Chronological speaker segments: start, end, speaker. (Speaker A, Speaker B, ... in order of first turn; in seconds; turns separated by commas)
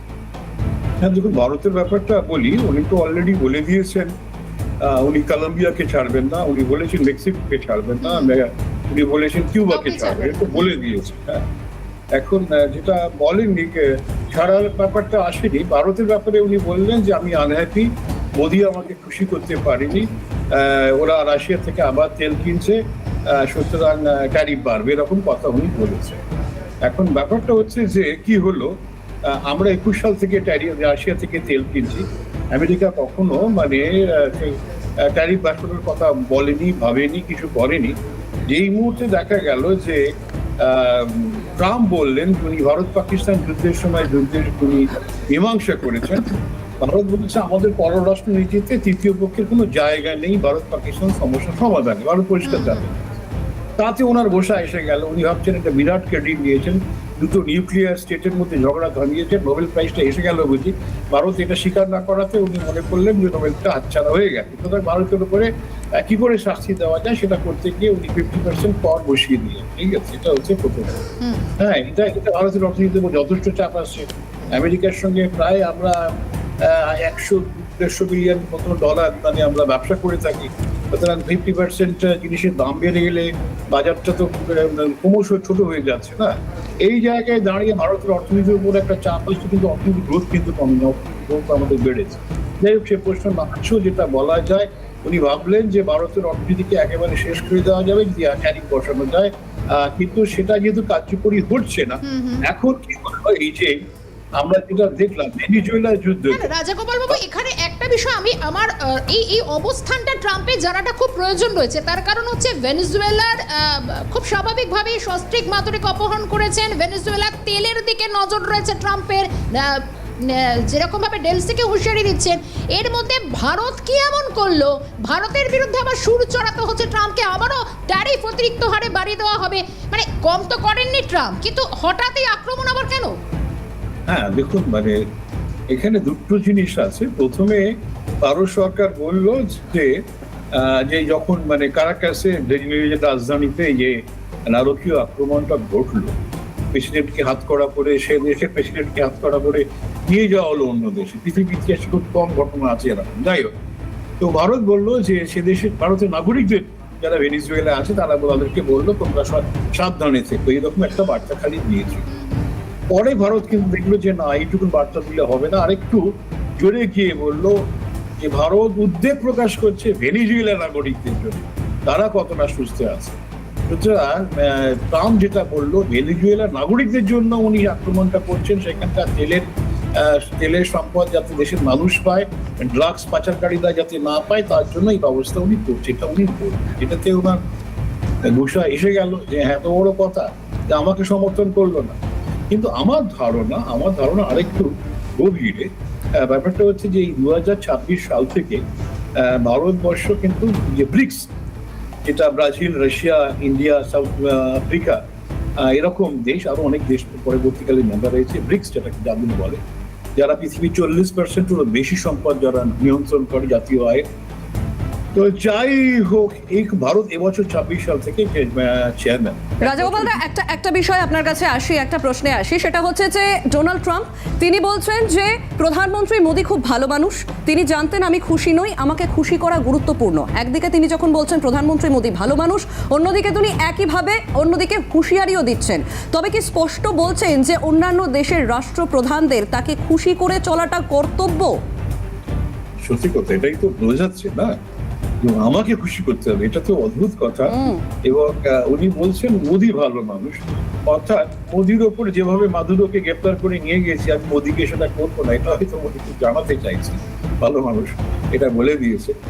Speaker A: 1.0-4.1, Speaker A: 4.8-11.4, Speaker B: 8.0-8.3, Speaker B: 9.7-10.7, Speaker A: 12.1-26.2, Speaker A: 26.8-28.7, Speaker A: 29.2-37.9, Speaker A: 38.5-40.1, Speaker A: 40.6-53.0, Speaker B: 52.4-52.8, Speaker A: 53.8-70.9, Speaker B: 71.2-71.5, Speaker A: 71.6-103.8, Speaker B: 102.0-102.4, Speaker A: 104.4-106.5, Speaker B: 106.3-133.2, Speaker A: 134.1-135.0, Speaker A: 135.7-140.0, Speaker A: 140.5-146.1, Speaker A: 146.7-153.5, Speaker A: 154.2-162.1, Speaker B: 162.1-162.5, Speaker A: 162.9-166.1, Speaker A: 166.6-167.6, Speaker A: 168.2-187.4, Speaker A: 188.3-191.9, Speaker A: 192.5-198.6, Speaker A: 199.2-201.3, Speaker A: 202.0-205.0, Speaker A: 205.6-209.6, Speaker A: 210.2-214.0, Speaker A: 215.1-220.2, Speaker C: 219.6-241.5, Speaker A: 242.8-244.6, Speaker A: 245.2-259.1, Speaker C: 247.5-247.8